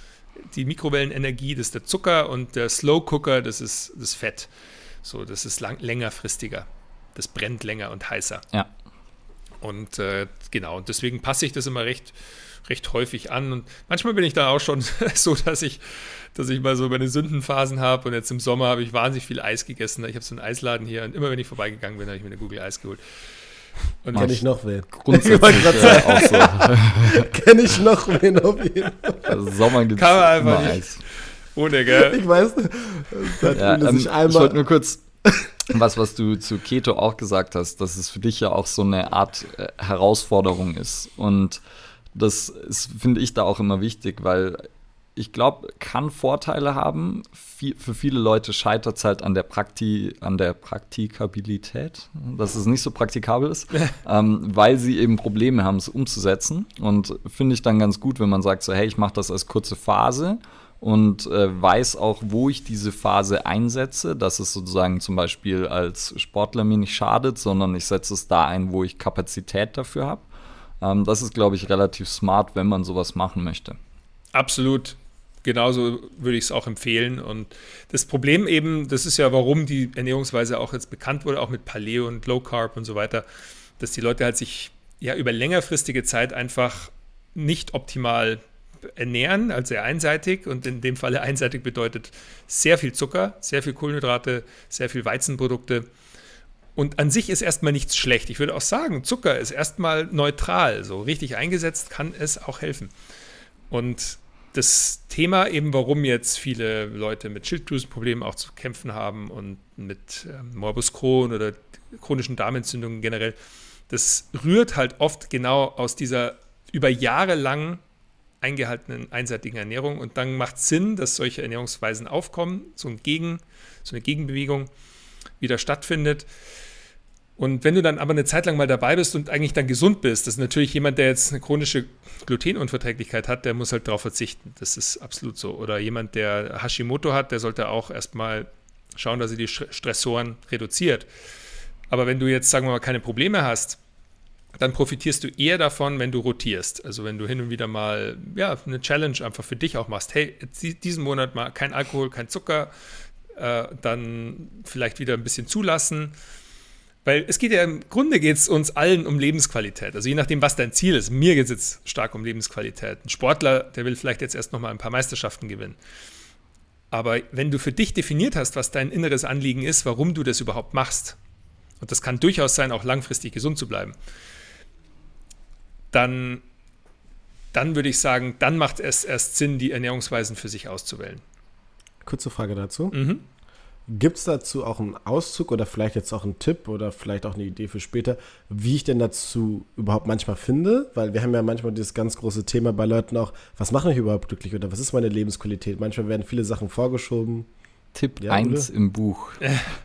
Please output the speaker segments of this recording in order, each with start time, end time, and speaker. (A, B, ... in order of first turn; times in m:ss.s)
0:00.5-0:04.5 A
0:05.0-0:08.4 A
0:09.6-0:12.1 A
0:12.6-0:23.0 A
0:24.0-0:24.4 A
0:24.1-0:27.3 B
0:24.1-0:29.4 C
0:25.5-0:26.5 A
0:29.2-0:31.0 B
0:29.9-0:32.2 A
0:31.9-0:34.6 C
0:33.5-0:35.0 B
0:35.2-0:35.5 C
0:35.6-0:41.6 B
0:42.1-1:10.2 B
1:10.8-1:13.8 B
1:14.3-1:23.2 A
1:23.8-1:35.9 A
1:36.8-1:42.9 A
1:43.7-1:53.4 A
1:53.9-1:57.8 A
1:58.4-2:04.7 A
2:05.4-2:06.3 A
2:07.4-2:21.1 A
2:21.9-2:23.8 A
2:24.6-2:32.7 A
2:33.4-2:36.1 A
2:37.0-2:45.8 A
2:46.9-2:51.2 A
2:51.8-2:54.0 A
2:55.9-2:56.4 A
2:57.5-3:01.2 A
3:02.0-3:02.9 C
3:02.9-3:03.2 A
3:03.9-3:17.5 C
3:17.9-3:19.4 B
3:18.2-3:18.7 C
3:19.4-3:19.7 A